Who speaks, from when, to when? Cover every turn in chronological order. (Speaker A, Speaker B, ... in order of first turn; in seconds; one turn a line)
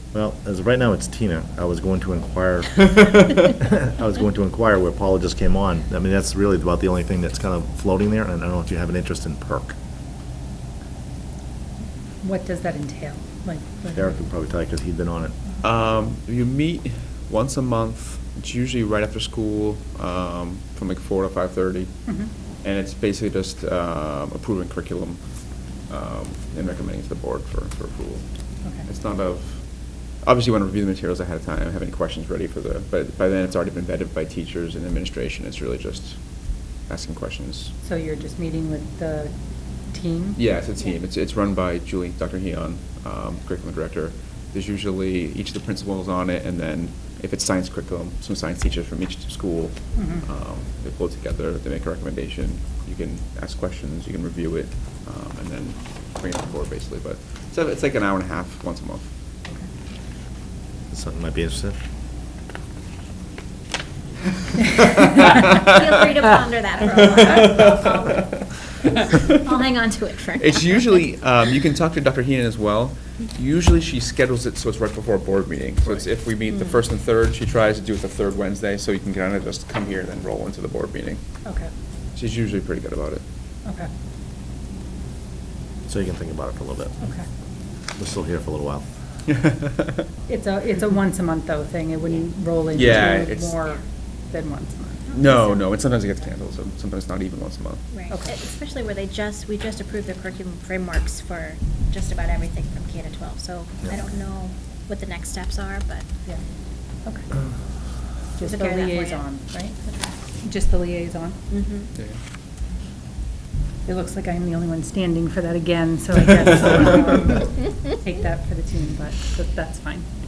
Speaker A: 0.1-9.8
Speaker B: 12.2-14.2
Speaker A: 13.9-15.4
Speaker C: 15.6-37.7
Speaker B: 22.1-22.3
Speaker B: 28.6-28.9
Speaker B: 37.8-39.3
Speaker B: 39.9-40.4
Speaker C: 40.4-59.1
Speaker B: 50.0-50.3
Speaker A: 60.9-61.8
Speaker D: 64.8-71.0
Speaker C: 70.4-81.2
Speaker B: 81.4-81.7
Speaker C: 82.2-83.2
Speaker B: 83.7-83.9
Speaker A: 85.9-87.0
Speaker B: 87.0-87.3
Speaker A: 88.0-88.9
Speaker C: 89.3-90.0
Speaker B: 90.3-95.1
Speaker C: 92.7-93.6
Speaker D: 95.1-95.7
Speaker C: 95.1-97.8
Speaker D: 97.9-106.1
Speaker B: 98.1-98.4
Speaker B: 108.4-111.4
Speaker D: 108.4-109.3
Speaker D: 109.9-110.1
Speaker D: 111.5-111.9
Speaker B: 113.8-120.1